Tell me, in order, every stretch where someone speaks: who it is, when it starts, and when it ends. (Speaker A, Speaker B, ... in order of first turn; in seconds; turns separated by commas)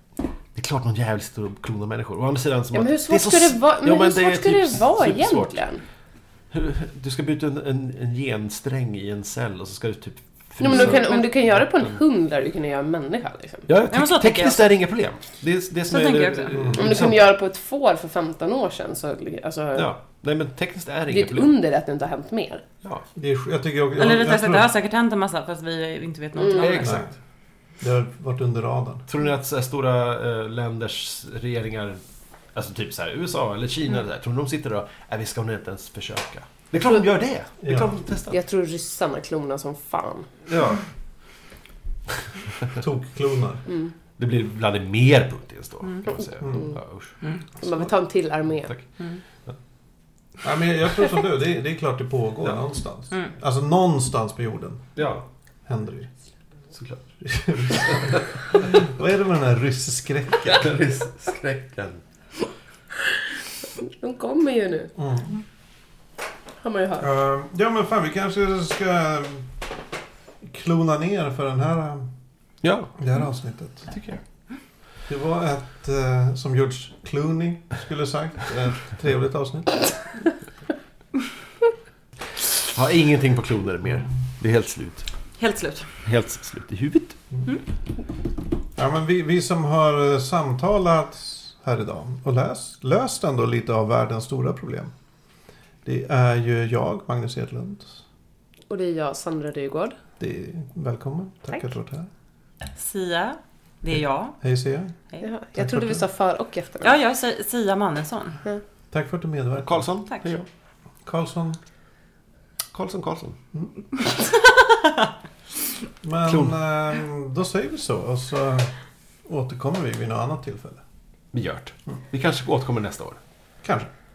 Speaker A: 0.5-5.6, Speaker B: 2.7-5.8, Speaker A: 6.5-12.0, Speaker B: 10.6-13.7, Speaker C: 10.7-11.2, Speaker A: 13.7-17.3, Speaker C: 13.9-14.7, Speaker C: 15.9-16.6, Speaker D: 16.5-16.9, Speaker B: 16.8-19.9, Speaker A: 19.7-21.5, Speaker B: 21.1-22.6, Speaker D: 23.1-24.7, Speaker C: 24.0-27.0, Speaker B: 26.4-26.8, Speaker A: 26.6-27.1, Speaker D: 26.8-27.1, Speaker D: 27.8-29.1, Speaker A: 29.1-32.0, Speaker A: 32.5-38.4, Speaker B: 36.7-37.0, Speaker D: 37.6-37.9, Speaker B: 38.3-40.3, Speaker A: 40.5-40.8, Speaker D: 42.8-43.6, Speaker B: 43.7-43.9, Speaker A: 44.2-47.1, Speaker D: 46.4-46.7, Speaker B: 46.4-46.8, Speaker B: 47.5-48.7, Speaker D: 50.4-54.9, Speaker A: 55.0-55.2, Speaker D: 55.7-56.1, Speaker A: 56.7-57.0, Speaker D: 57.2-60.7, Speaker A: 57.7-58.2, Speaker A: 60.5-62.0, Speaker B: 63.8-64.9, Speaker D: 65.0-65.4, Speaker B: 66.6-67.1, Speaker D: 67.0-69.5, Speaker D: 70.4-72.1, Speaker A: 72.6-72.9, Speaker D: 73.0-73.9, Speaker A: 73.9-74.2, Speaker D: 75.1-79.9, Speaker A: 82.6-85.1, Speaker C: 85.4-85.9, Speaker A: 86.0-87.2, Speaker D: 88.8-94.9, Speaker D: 95.8-98.0, Speaker B: 98.7-100.0, Speaker D: 100.2-102.1, Speaker C: 102.7-104.4, Speaker D: 104.4-104.9, Speaker B: 105.2-107.0, Speaker D: 105.5-106.0, Speaker C: 106.8-108.4, Speaker D: 108.9-109.8, Speaker A: 109.6-110.5, Speaker D: 111.0-111.6, Speaker A: 112.7-113.4, Speaker C: 114.1-115.0, Speaker D: 116.0-118.7, Speaker A: 116.3-116.5, Speaker D: 119.2-120.8, Speaker A: 121.3-123.2, Speaker D: 123.6-123.9